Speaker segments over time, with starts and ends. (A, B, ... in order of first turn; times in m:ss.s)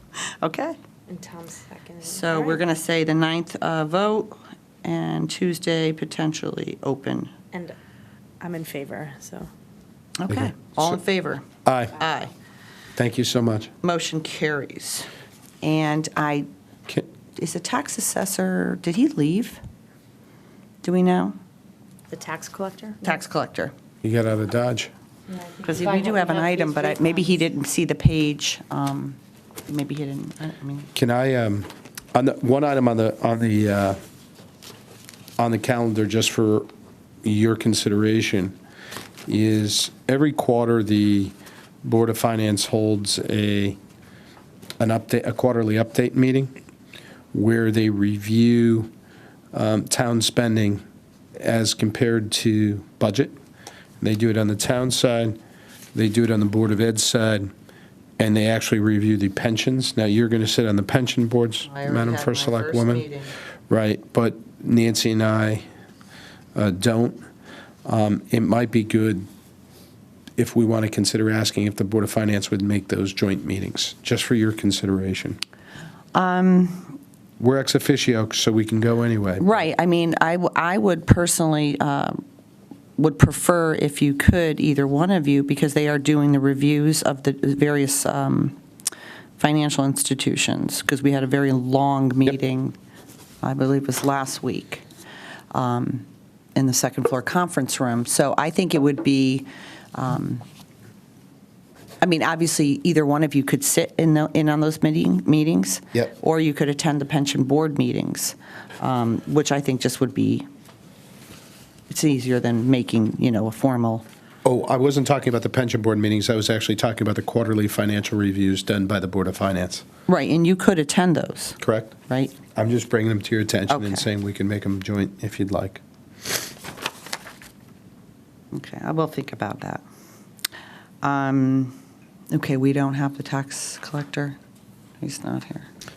0:00.4-0:00.8 A
0:01.1-0:02.6 B
0:02.0-0:07.3 A
0:08.4-0:09.5 B
0:10.2-0:11.4 A
0:10.3-0:10.8 C
0:11.6-0:12.0 C
0:12.0-0:12.3 A
0:13.0-0:13.7 C
0:13.8-0:15.1 A
0:15.6-0:16.5 A
0:17.4-0:19.6 A
0:20.8-0:21.4 A
0:22.1-0:23.2 B
0:23.0-0:23.7 A
0:24.0-0:24.9 C
0:25.3-0:27.1 B
0:25.6-0:30.9 A
0:31.0-0:34.0 C
0:35.4-0:36.7 C
0:37.2-0:38.6 C
0:39.3-0:43.8 C
0:44.8-0:46.5 C
0:47.3-0:48.9 C
0:49.5-0:50.8 C
0:51.4-0:53.3 C
0:54.0-0:55.4 C
0:56.0-0:57.5 C
0:58.2-1:03.1 C
1:01.7-1:03.4 A
1:03.7-1:05.6 C
1:06.6-1:07.2 C
1:07.8-1:09.3 C
1:10.4-1:15.4 C
1:16.2-1:17.0 A
1:17.4-1:19.6 C
1:19.4-1:22.2 A
1:23.0-1:28.6 A
1:29.4-1:32.8 A
1:33.4-1:34.8 A
1:35.5-1:40.4 A
1:42.0-1:50.5 A
1:51.9-1:54.0 A
1:54.4-1:59.8 C
2:00.1-2:02.4 A
2:01.6-2:02.0 C
2:02.6-2:05.8 C
2:03.7-2:04.0 A
2:08.5-2:09.8 A
2:11.0-2:11.8 A
2:12.3-2:14.4 A
2:15.0-2:15.7 A